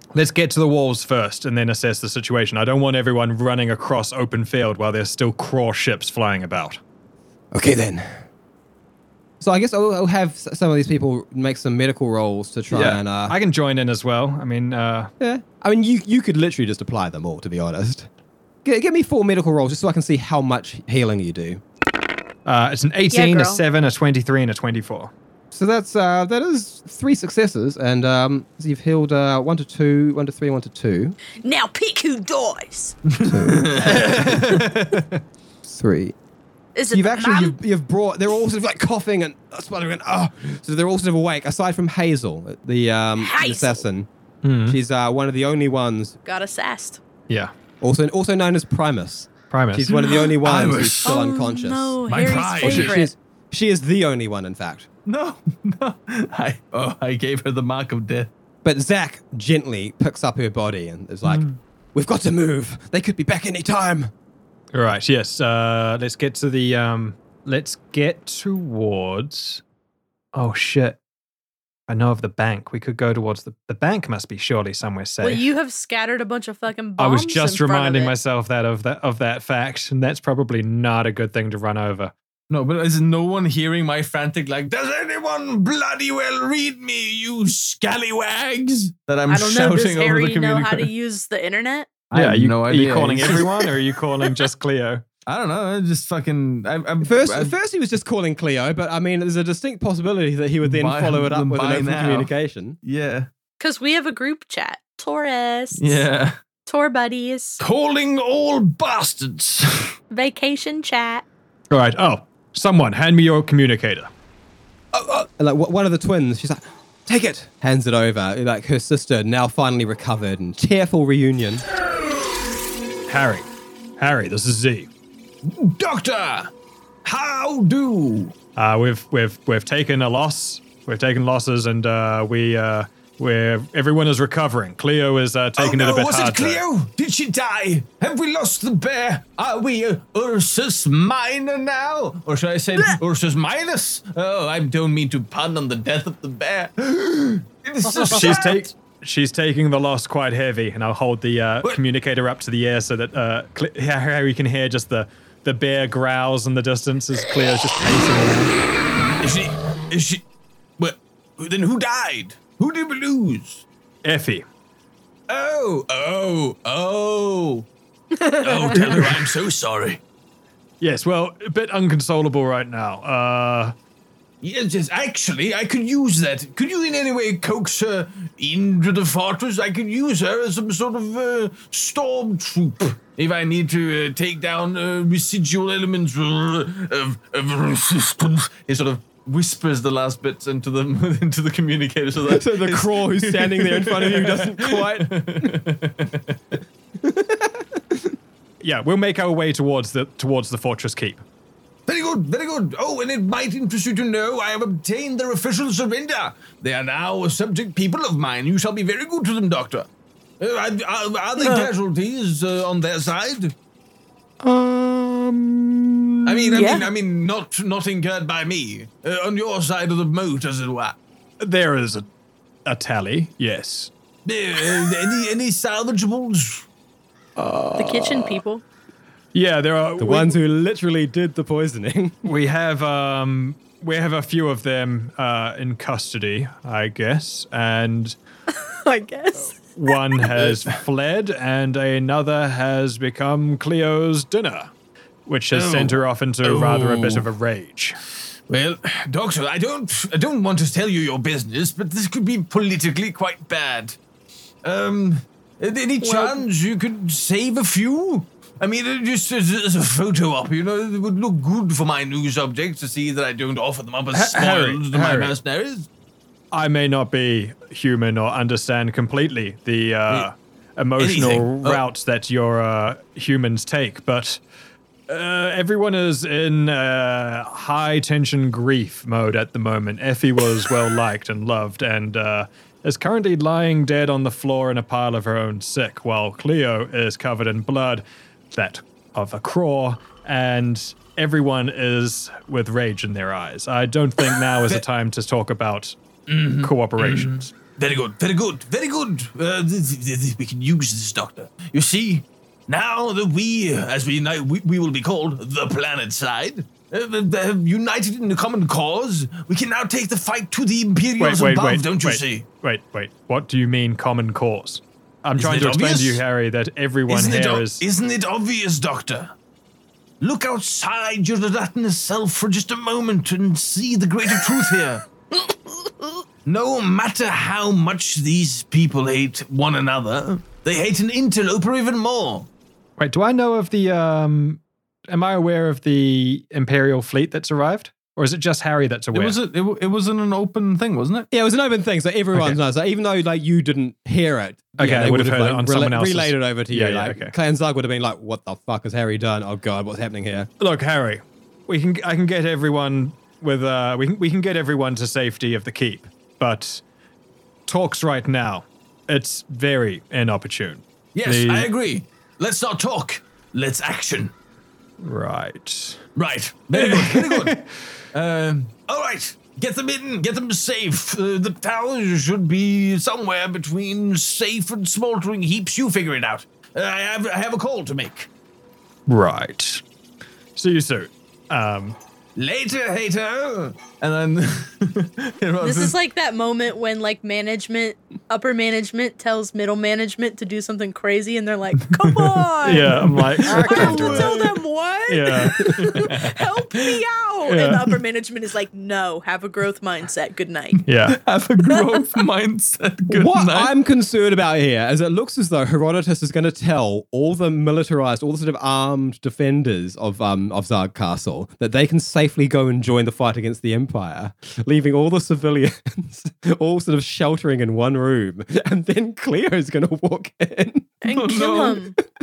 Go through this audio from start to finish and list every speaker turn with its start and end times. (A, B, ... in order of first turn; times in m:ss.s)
0:00.1-0:06.8 A
0:07.5-0:08.0 B
0:09.4-0:13.4 B
0:12.7-0:15.1 A
0:15.2-0:18.1 B
0:18.6-0:21.6 B
0:22.4-0:25.1 A
0:23.1-0:23.6 C
0:25.5-0:31.2 B
0:31.4-0:33.0 C
0:33.2-0:34.2 D
0:33.2-0:34.4 B
0:33.9-0:35.1 A
0:35.6-0:36.1 B
0:36.7-0:37.6 C
0:36.9-0:44.1 B
0:43.2-0:43.8 C
0:44.4-0:44.8 A
0:44.7-0:46.2 B
0:46.2-0:47.0 C
0:47.8-0:54.9 B
0:49.5-0:50.0 A
0:50.1-0:51.2 D
0:51.0-0:53.1 C
0:52.1-0:53.0 D
0:55.0-0:58.3 D
0:58.6-1:04.1 B
1:04.7-1:09.6 A
1:10.3-1:11.0 A
1:11.9-1:15.4 A
1:15.2-1:18.1 C
1:17.0-1:22.1 A
1:22.5-1:30.9 D
1:29.3-1:32.0 C
1:32.1-1:34.4 D
1:32.1-1:35.0 A
1:35.2-1:37.5 D
1:37.0-1:42.8 B
1:40.6-1:42.3 D
1:42.8-1:43.3 D
1:43.6-1:46.0 C
1:45.8-1:46.4 D
1:46.7-1:47.6 C
1:47.6-1:49.9 D
1:50.1-1:51.2 C
1:51.7-1:54.1 A
1:54.9-2:01.6 B
2:03.1-2:03.5 A
2:04.0-2:04.9 A
2:05.4-2:06.5 D
2:07.0-2:08.3 D
2:08.6-2:16.6 A
2:15.6-2:28.7 D
2:27.9-2:38.5 A
2:39.2-2:40.2 D
2:40.8-2:43.6 D
2:44.0-2:44.4 A
2:45.3-2:47.7 D
2:48.2-2:48.7 C
2:48.3-2:50.0 D
2:48.7-2:49.2 A
2:50.8-2:53.7 A
2:54.4-3:16.5 D
3:12.2-3:15.6 B
3:17.0-3:18.1 B
3:18.6-3:21.2 A
3:21.9-3:29.9 D
3:30.4-3:33.5 D
3:31.4-3:31.7 C
3:34.4-3:36.6 A
3:36.2-3:41.0 D
3:36.5-3:36.9 C
3:41.4-3:42.1 A
3:42.6-3:43.9 A
3:44.2-3:46.6 D
3:47.4-3:48.2 A
3:47.8-3:48.6 C
3:49.3-3:50.3 A
3:50.0-3:52.2 B
3:52.2-3:58.2 A
3:58.7-3:59.9 C
3:59.4-4:04.7 A
4:00.4-4:00.7 D
4:05.2-4:08.0 A
4:05.5-4:07.3 D
4:08.5-4:14.0 D
4:14.6-4:25.9 D
4:16.0-4:16.4 C
4:24.1-4:25.4 A
4:26.5-4:34.4 A
4:31.0-4:31.8 D
4:35.1-4:56.0 A
4:56.3-5:12.5 D
4:56.5-4:57.5 A
5:11.2-5:17.8 A
5:15.4-5:16.2 D
5:17.1-5:19.3 D
5:20.2-5:25.0 D
5:26.4-5:32.5 D
5:33.0-5:39.4 A
5:39.1-5:41.3 D
5:41.3-5:50.5 B
5:44.8-5:47.3 A
5:50.6-5:56.8 A
5:57.6-6:01.7 A
6:01.1-6:04.3 D
6:05.0-6:06.0 A
6:06.2-6:07.6 D
6:06.7-6:07.7 A
6:08.1-6:18.3 D
6:19.1-6:19.8 A
6:20.6-6:22.0 A
6:22.4-6:25.9 D
6:25.6-6:40.8 C
6:31.9-6:34.4 D
6:32.6-6:34.5 A
6:35.1-6:36.3 A
6:37.4-6:38.0 A
6:40.8-6:41.2 A
6:40.9-6:43.7 D
6:41.6-6:41.9 C
6:43.1-7:01.0 B
7:01.0-7:02.0 C
7:01.1-7:01.8 D